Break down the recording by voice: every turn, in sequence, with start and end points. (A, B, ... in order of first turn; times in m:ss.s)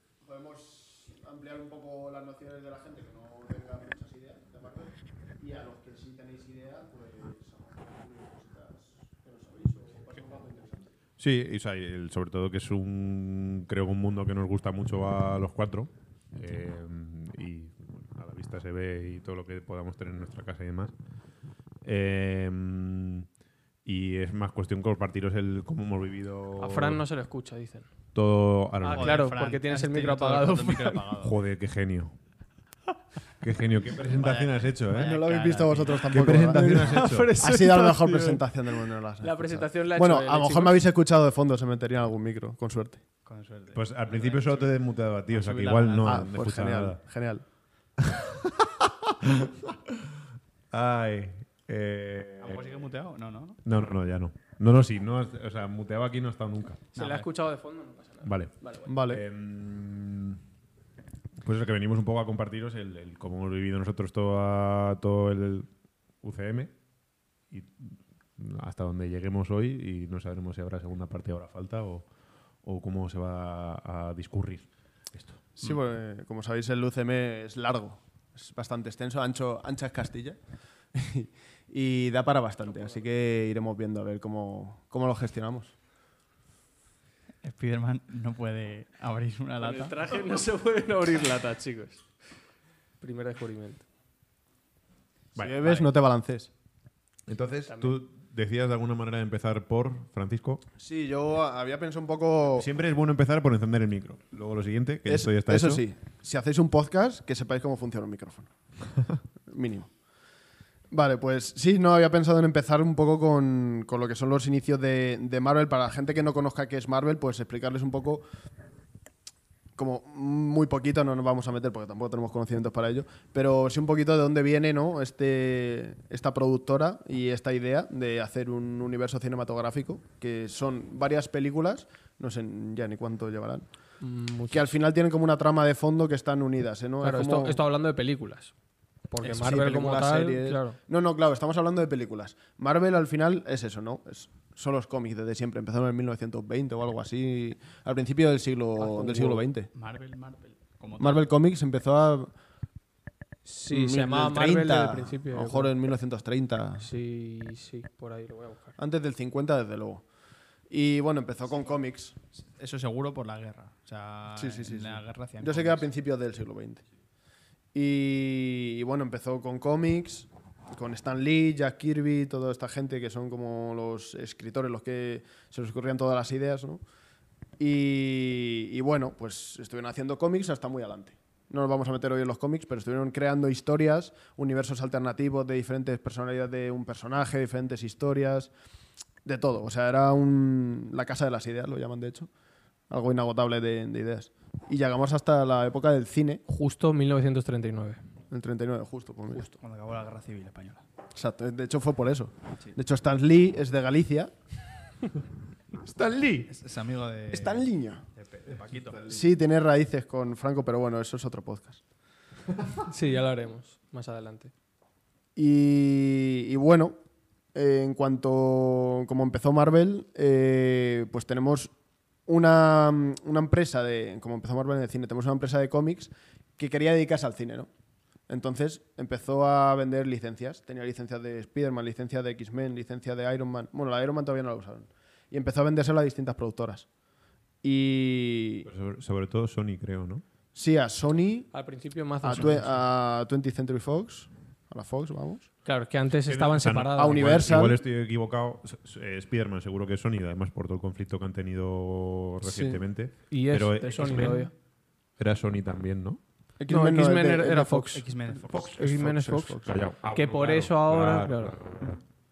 0:00.2-0:10.9 A
0:11.2-0:20.9 B
0:21.8-0:23.3 B
0:23.8-0:27.1 B
0:26.6-0:27.9 C
0:28.2-0:29.4 B
0:28.8-0:31.0 C
0:28.9-0:31.3 D
0:31.2-0:32.2 B
0:33.4-0:35.2 B
0:34.0-0:36.4 D
0:35.0-0:43.0 A
0:36.1-0:37.3 B
0:36.7-0:38.5 C
0:39.2-0:40.8 C
0:43.3-0:46.2 D
0:43.7-0:47.0 B
0:46.0-0:47.4 A
0:48.1-0:50.0 B
0:50.7-0:52.9 B
0:52.4-0:53.6 D
0:53.6-0:56.9 B
0:56.9-0:57.3 D
0:57.0-0:58.9 C
0:58.2-0:58.6 B
0:58.9-0:59.2 A
0:59.1-1:00.4 B
1:01.4-1:05.7 B
1:06.2-1:06.7 B
1:07.5-1:12.1 B
1:12.6-1:15.4 B
1:15.6-1:20.4 A
1:20.9-1:25.7 A
1:27.4-1:30.1 D
1:29.6-1:32.0 C
1:33.0-1:33.9 C
1:35.4-1:35.7 B
1:35.4-1:36.5 A
1:37.3-1:40.6 B
1:37.7-1:38.0 C
1:40.8-1:42.7 A
1:42.6-1:45.8 B
1:45.1-1:48.5 A
1:49.5-1:49.9 A
1:50.9-1:58.2 A
1:59.8-2:13.7 A
2:14.0-2:14.7 C
2:14.5-2:17.6 A
2:17.0-2:18.5 C
2:19.1-2:20.8 C
2:19.2-2:29.7 A
2:28.9-2:29.3 C
2:29.7-2:31.3 D
2:31.0-2:32.3 A
2:33.5-2:35.7 C
2:33.7-2:36.9 A
2:36.8-2:38.8 C
2:38.8-2:40.0 A
2:40.7-2:42.2 A
2:42.5-2:45.9 D
2:44.4-2:46.8 A
2:47.7-2:56.8 A
2:57.6-3:08.5 A
3:09.2-3:12.3 A
3:12.9-3:16.4 A
3:16.5-3:18.0 C
3:18.3-3:19.5 A
3:19.5-3:20.8 D
3:21.2-3:24.3 A
3:25.9-3:26.5 A
3:26.5-3:29.0 D
3:27.3-3:28.1 A
3:28.9-3:29.2 B
3:29.1-3:31.8 A
3:32.9-3:34.5 C
3:35.4-3:37.0 A
3:37.6-3:41.7 A
3:42.3-3:47.7 A
3:48.3-3:56.9 A
3:57.6-3:58.7 A
3:58.7-4:00.2 B
4:00.6-4:01.5 A
4:01.5-4:02.9 C
4:02.2-4:05.5 A
4:05.6-4:07.6 C
4:06.1-4:14.5 B
4:07.0-4:07.8 A
4:12.4-4:12.8 A
4:13.3-4:14.5 C
4:15.2-4:16.2 B
4:16.6-4:18.0 A
4:16.7-4:21.6 C
4:17.9-4:18.6 D
4:18.5-4:22.0 B
4:18.8-4:19.7 A